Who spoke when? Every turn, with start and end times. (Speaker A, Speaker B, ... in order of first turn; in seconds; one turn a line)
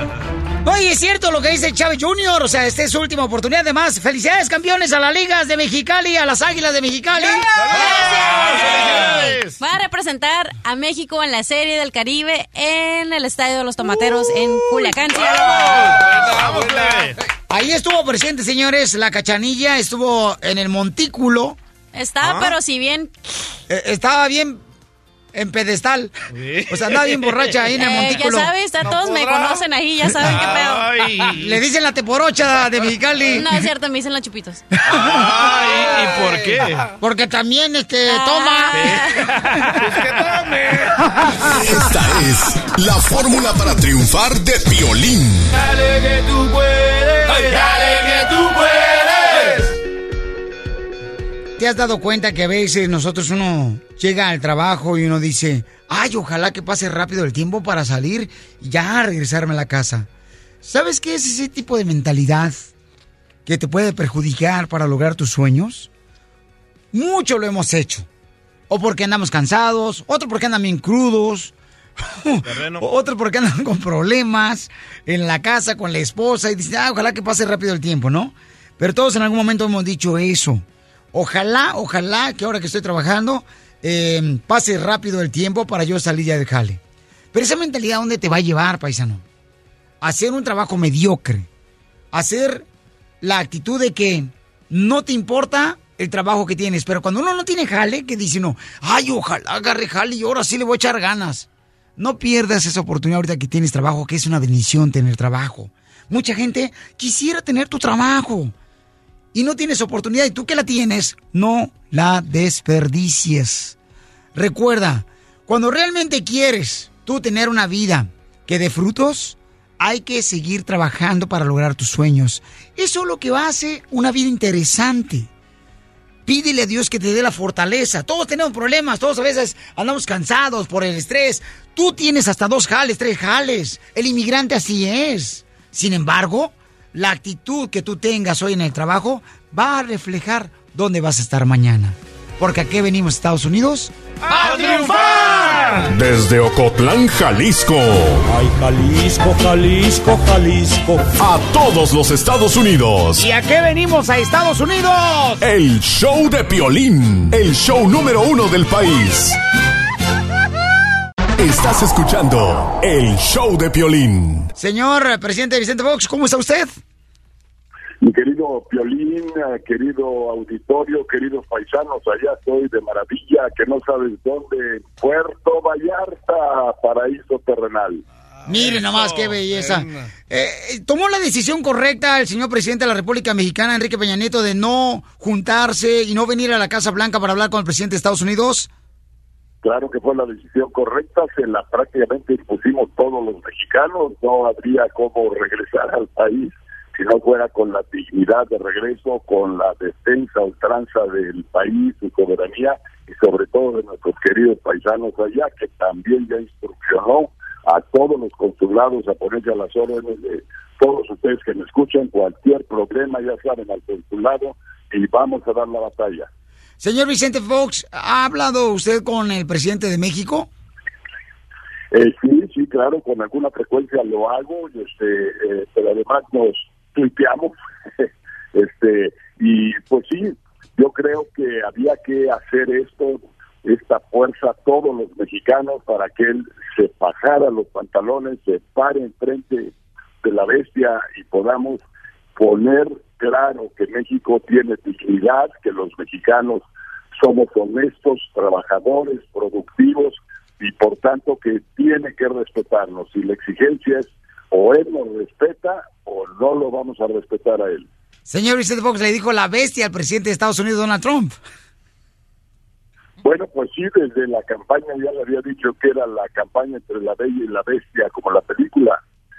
Speaker A: 0.7-7.5
Speaker B: 7.6-9.6
Speaker C: 7.6-9.3
Speaker D: 7.7-9.0
Speaker D: 9.6-15.9
Speaker B: 15.1-17.2
Speaker C: 15.3-17.1
Speaker A: 17.5-21.6
Speaker D: 21.9-23.1
Speaker B: 22.2-22.6
Speaker A: 23.7-24.6
Speaker A: 25.3-26.1
Speaker B: 26.3-27.6
Speaker A: 26.7-28.5
Speaker D: 27.7-30.9
Speaker C: 28.8-29.6
Speaker B: 30.2-31.6
Speaker A: 31.3-33.5
Speaker D: 33.3-34.6
Speaker B: 34.9-36.9
Speaker A: 34.9-35.2
Speaker A: 37.0-39.0
Speaker D: 38.1-39.1
Speaker B: 38.7-39.8
Speaker C: 39.8-41.1
Speaker E: 41.5-45.5
Speaker C: 45.6-49.7
Speaker A: 51.6-60.1
Speaker A: 60.6-62.6
Speaker A: 63.5-65.9
Speaker A: 66.9-68.1
Speaker A: 68.7-86.8
Speaker B: 72.4-72.8
Speaker A: 87.3-89.2
Speaker A: 90.0-91.5
Speaker A: 92.1-92.7
Speaker A: 93.2-101.5
Speaker A: 102.0-108.5
Speaker A: 109.3-113.8
Speaker A: 114.3-125.3
Speaker A: 126.3-145.6
Speaker B: 144.2-145.9
Speaker C: 144.4-145.8
Speaker E: 145.9-148.2
Speaker C: 149.0-150.7
Speaker E: 151.2-153.3
Speaker A: 153.2-155.4
Speaker E: 155.4-159.4
Speaker E: 161.4-164.5
Speaker A: 164.6-166.8
Speaker F: 168.0-178.0
Speaker C: 178.4-178.9
Speaker A: 178.5-188.7
Speaker B: 178.9-179.3
Speaker C: 179.5-180.1
Speaker F: 189.6-216.3
Speaker A: 216.8-220.5
Speaker F: 221.9-241.8
Speaker F: 242.4-246.6
Speaker F: 247.2-257.9
Speaker A: 258.3-261.4
Speaker F: 263.2-269.0